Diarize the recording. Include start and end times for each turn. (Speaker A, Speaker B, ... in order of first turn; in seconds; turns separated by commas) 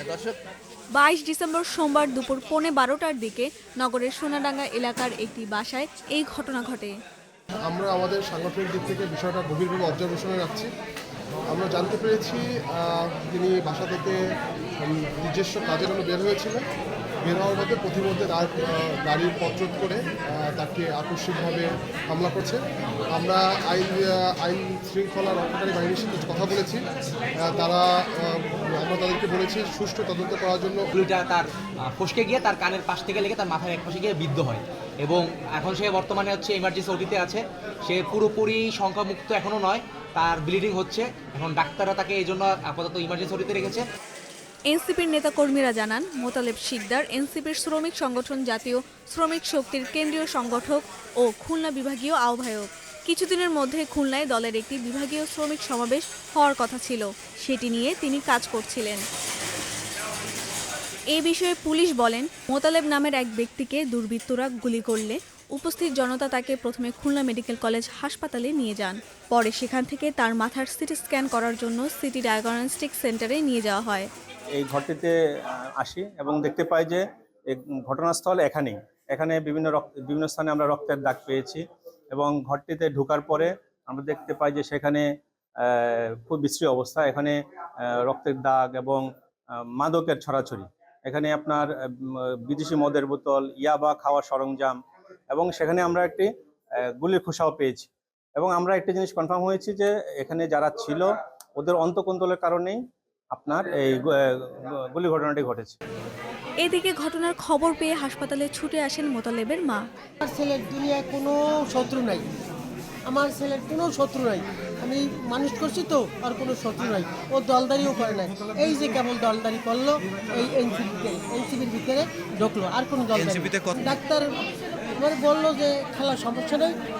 Speaker A: 0.9-6.9, Speaker B: 7.7-10.7, Speaker B: 11.5-14.2, Speaker B: 14.8-16.6, Speaker B: 17.2-26.8, Speaker B: 27.4-30.9, Speaker C: 30.9-43.8, Speaker A: 44.7-59.0, Speaker A: 61.1-74.1, Speaker D: 74.6-85.0, Speaker D: 85.6-94.8, Speaker D: 95.3-96.3, Speaker D: 97.0-102.8, Speaker D: 103.3-105.8, Speaker A: 106.6-109.8, Speaker E: 110.2-112.3, Speaker E: 113.1-124.3, Speaker E: 124.9-126.7